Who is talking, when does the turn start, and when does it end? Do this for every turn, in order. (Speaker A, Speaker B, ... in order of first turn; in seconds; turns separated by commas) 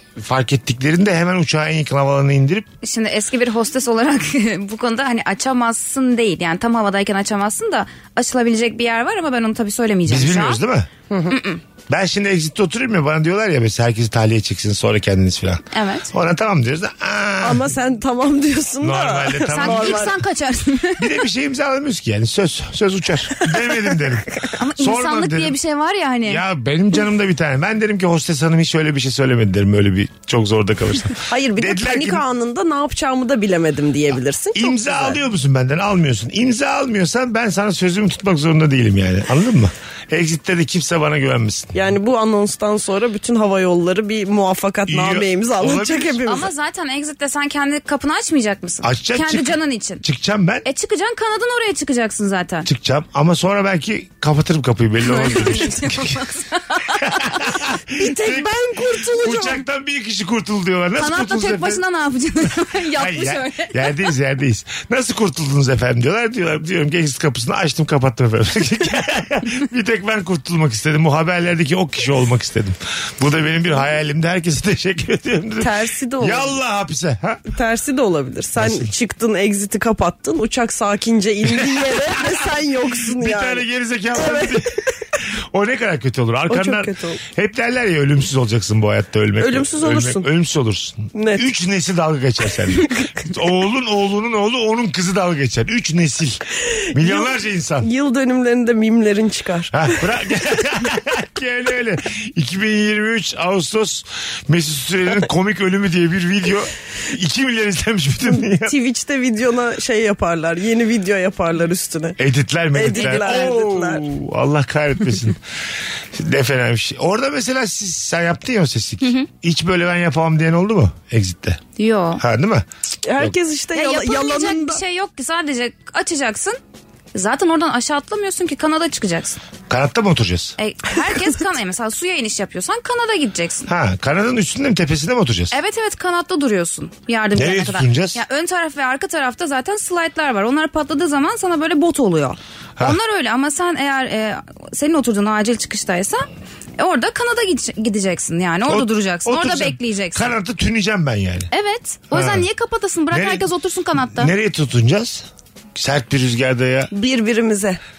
Speaker A: 0.1-2.7, Speaker B: 2.8-10.6, Speaker A: 10.1-10.9, Speaker C: 11.1-11.4, Speaker B: 11.3-11.6, Speaker A: 11.9-17.7, Speaker B: 15.7-16.1, Speaker C: 17.4-20.1, Speaker A: 18.8-20.2, Speaker B: 19.5-21.1, Speaker A: 21.0-25.6, Speaker B: 24.6-26.4, Speaker A: 26.2-32.2, Speaker C: 31.2-35.2, Speaker A: 34.5-41.8, Speaker C: 41.7-46.5, Speaker A: 44.9-46.2, Speaker B: 46.2-50.0, Speaker A: 48.8-50.6, Speaker B: 50.6-52.7, Speaker A: 52.6-56.2, Speaker B: 55.0-57.4, Speaker A: 57.0-61.8, Speaker C: 57.9-59.6, Speaker B: 61.0-63.7, Speaker A: 62.9-77.5, Speaker C: 75.6-76.6, Speaker C: 77.5-83.6, Speaker A: 78.6-78.9, Speaker A: 81.5-82.5, Speaker A: 83.0-97.9, Speaker C: 84.1-84.6, Speaker C: 86.5-87.2, Speaker C: 89.4-90.3, Speaker C: 91.1-91.4, Speaker C: 96.7-99.9, Speaker A: 99.7-108.7, Speaker C: 108.3-112.2, Speaker A: 112.2-115.4, Speaker C: 112.7-114.0, Speaker B: 113.0-113.4, Speaker A: 116.1-121.7, Speaker B: 121.8-122.2, Speaker A: 122.2-122.7, Speaker C: 123.0-124.8, Speaker B: 123.7-126.6, Speaker B: 127.1-129.4, Speaker A: 129.7-130.5, Speaker B: 130.6-133.7, Speaker A: 133.7-135.5, Speaker B: 135.5-146.2, Speaker A: 137.3-138.2, Speaker B: 146.8-150.3, Speaker A: 148.7-151.5, Speaker B: 151.5-154.3, Speaker A: 152.1-152.4, Speaker A: 153.1-153.4, Speaker A: 154.1-156.9, Speaker C: 156.9-157.8